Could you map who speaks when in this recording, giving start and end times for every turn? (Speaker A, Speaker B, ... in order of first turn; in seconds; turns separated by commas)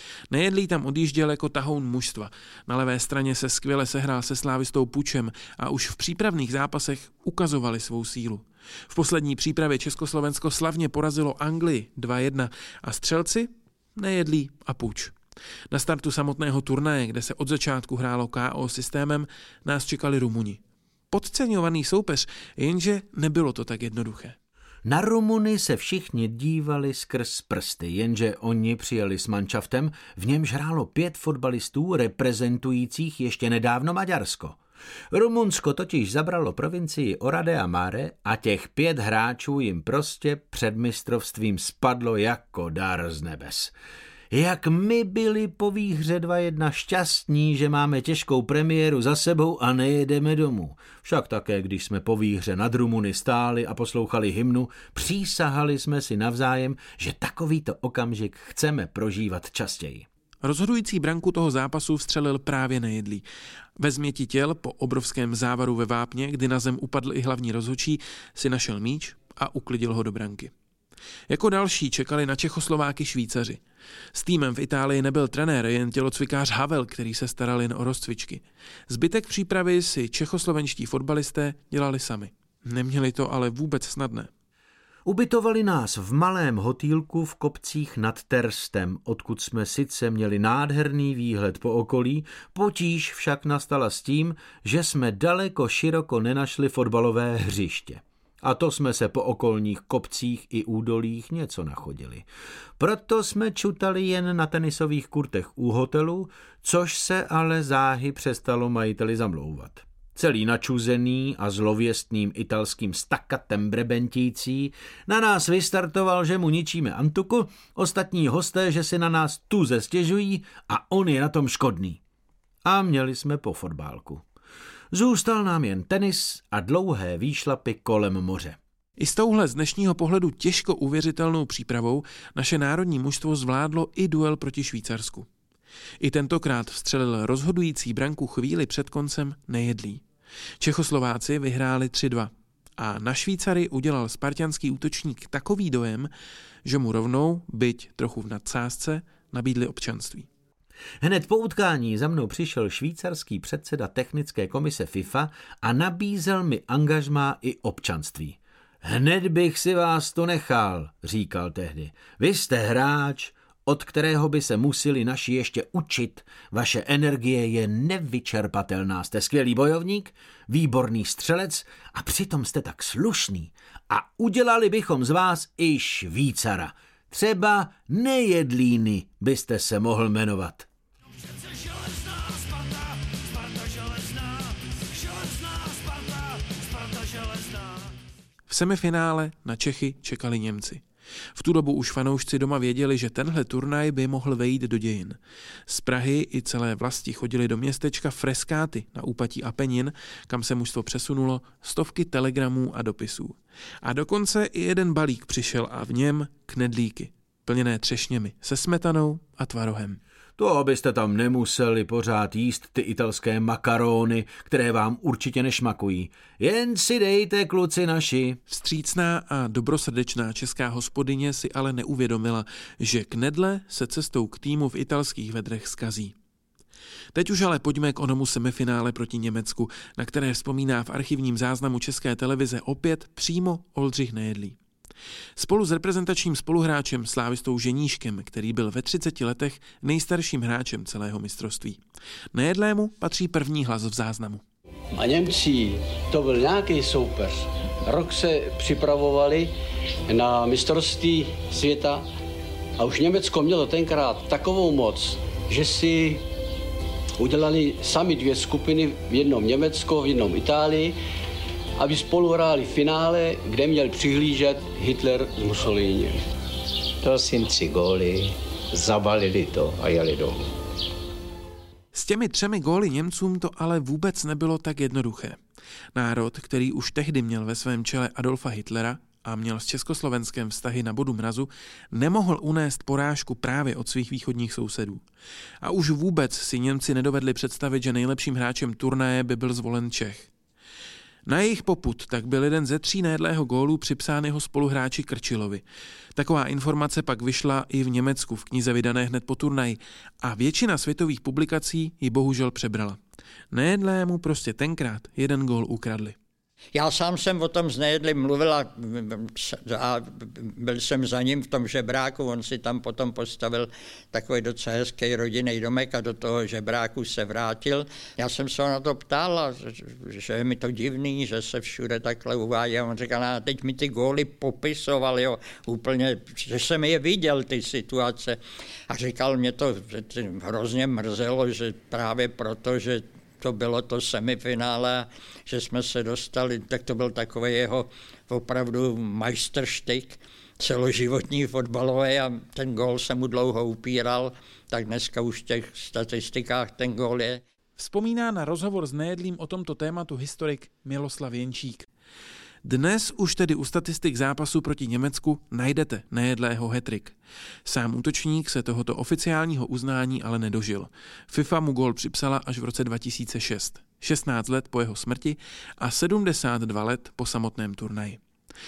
Speaker A: 0.3-15.1, Speaker A: 15.7-24.4, Speaker B: 24.9-34.6, Speaker B: 35.1-43.7, Speaker B: 44.3-60.1, Speaker A: 60.4-63.2, Speaker A: 63.8-70.5, Speaker A: 71.3-73.6, Speaker A: 74.1-84.3, Speaker B: 85.0-102.3, Speaker B: 102.8-122.0, Speaker B: 122.6-124.2, Speaker B: 124.9-128.6, Speaker A: 129.0-135.3, Speaker A: 136.0-140.0, Speaker A: 140.6-146.1, Speaker A: 146.7-150.3, Speaker B: 151.0-180.7, Speaker A: 188.5-190.8, Speaker A: 191.3-210.0, Speaker B: 210.4-218.4, Speaker A: 218.5-226.1, Speaker A: 227.1-234.6, Speaker A: 235.3-241.8, Speaker A: 242.3-244.4, Speaker C: 244.9-249.5, Speaker C: 250.1-252.0, Speaker C: 252.8-256.2, Speaker C: 257.2-260.9, Speaker C: 261.8-266.2, Speaker D: 267.0-270.5, Speaker A: 271.9-275.4, Speaker A: 275.9-285.0, Speaker A: 285.6-290.3, Speaker A: 291.2-295.6, Speaker A: 296.1-303.0, Speaker A: 303.5-306.1, Speaker E: 306.7-328.4, Speaker E: 328.9-347.4, Speaker A: 347.8-351.9, Speaker A: 352.6-368.2